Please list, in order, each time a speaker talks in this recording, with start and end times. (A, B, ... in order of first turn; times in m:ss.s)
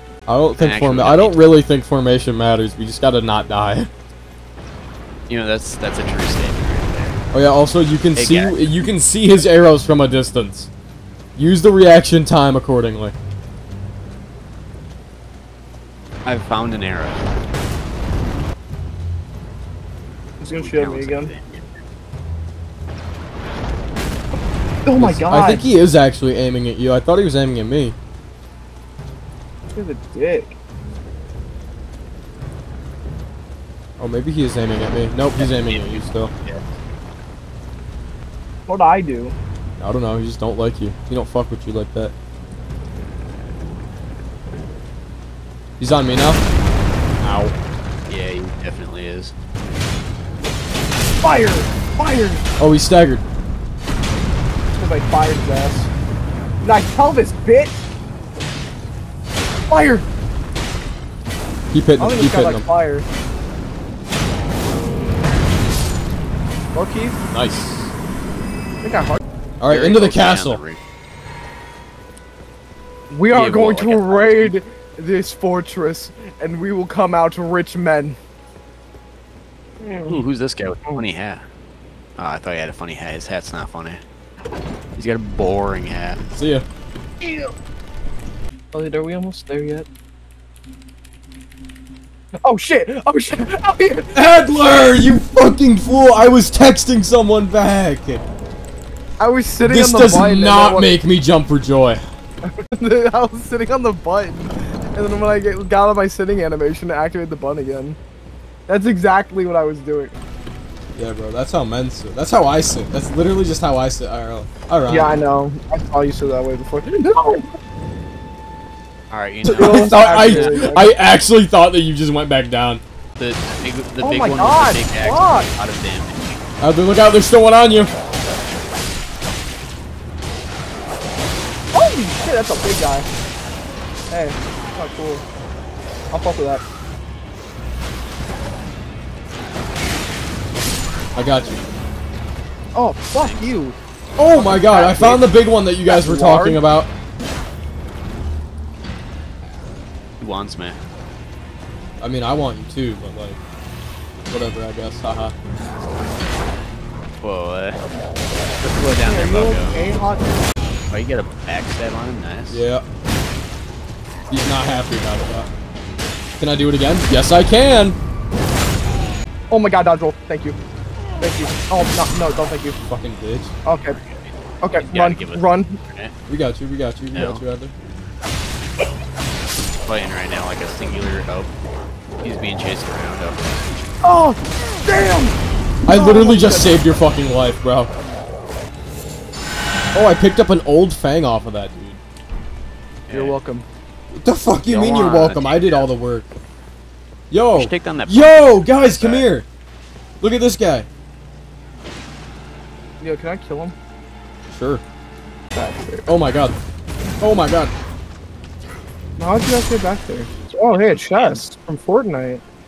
0:00.3-0:03.9 A
0:00.6-0:01.4 B
0:05.3-0:07.2 B
0:07.3-0:10.7 A
0:08.2-0:08.8 B
0:11.4-0:13.1 A
0:16.2-0:17.3 B
0:20.4-0:21.3 C
0:20.6-0:21.8 B
0:24.8-0:25.6 C
0:25.0-0:27.9 A
0:29.7-0:30.6 C
0:34.0-0:36.3 A
0:35.4-0:36.7 B
0:38.7-0:39.3 C
0:39.8-0:42.1 A
0:45.8-0:46.4 A
0:47.2-0:47.5 A
0:48.1-0:49.3 B
0:51.2-0:52.4 C
0:52.6-0:53.2 A
0:54.7-0:55.9 C
0:56.6-0:57.8 C
0:59.7-1:00.0 C
1:01.7-1:02.6 A
1:02.0-1:03.0 C
1:06.7-1:07.2 C
1:07.3-1:07.9 A
1:08.8-1:09.2 C
1:09.6-1:10.6 A
1:09.6-1:10.8 B
1:13.1-1:18.2 C
1:13.3-1:14.5 B
1:19.8-1:20.2 C
1:20.0-1:21.4 B
1:22.2-1:24.0 B
1:25.0-1:26.2 B
1:26.3-1:26.6 A
1:27.2-1:27.5 C
1:28.7-1:29.9 C
1:32.4-1:34.2 C
1:34.1-1:38.2 A
1:39.2-1:40.9 C
1:39.6-1:42.0 A
1:42.4-1:48.0 C
1:48.7-1:50.2 C
1:50.9-1:55.2 A
1:54.9-1:57.5 C
1:59.1-2:00.8 B
1:59.4-2:02.8 A
1:59.5-2:00.9 C
2:03.2-2:06.4 B
2:04.0-2:05.5 C
2:06.6-2:07.9 A
2:11.7-2:13.1 C
2:14.1-2:15.2 C
2:16.1-2:16.6 C
2:21.1-2:21.6 A
2:22.7-2:23.8 C
2:23.2-2:23.5 B
2:24.2-2:26.9 A
2:24.3-2:25.3 C
2:25.8-2:26.6 C
2:30.2-2:30.8 B
2:32.0-2:33.4 A
2:34.3-2:35.3 A
2:37.2-2:37.8 B
2:38.6-2:40.3 C
2:38.6-2:40.0 B
2:40.9-2:42.6 B
2:42.5-2:42.8 A
2:44.3-2:45.5 A
2:46.4-2:48.0 A
2:49.5-2:50.6 C
2:51.2-2:52.8 C
2:52.9-2:53.5 A
2:53.6-2:54.0 C
2:53.9-2:56.1 B
2:54.6-2:55.8 C
2:56.3-2:57.7 A
2:57.1-2:57.4 B
2:59.8-3:01.5 B
3:02.2-3:03.6 B
3:04.0-3:05.3 C
3:05.8-3:07.9 A
3:05.9-3:06.8 C
3:09.9-3:12.0 A
3:13.1-3:13.4 B
3:13.1-3:13.6 C
3:14.1-3:16.3 A
3:14.6-3:15.8 B
3:17.3-3:19.4 A
3:17.5-3:19.3 B
3:20.2-3:20.9 A
3:23.0-3:23.7 C
3:24.5-3:24.8 A
3:25.5-3:26.1 C
3:26.0-3:26.5 A
3:27.2-3:27.7 A
3:29.2-3:32.4 C
3:30.7-3:31.4 B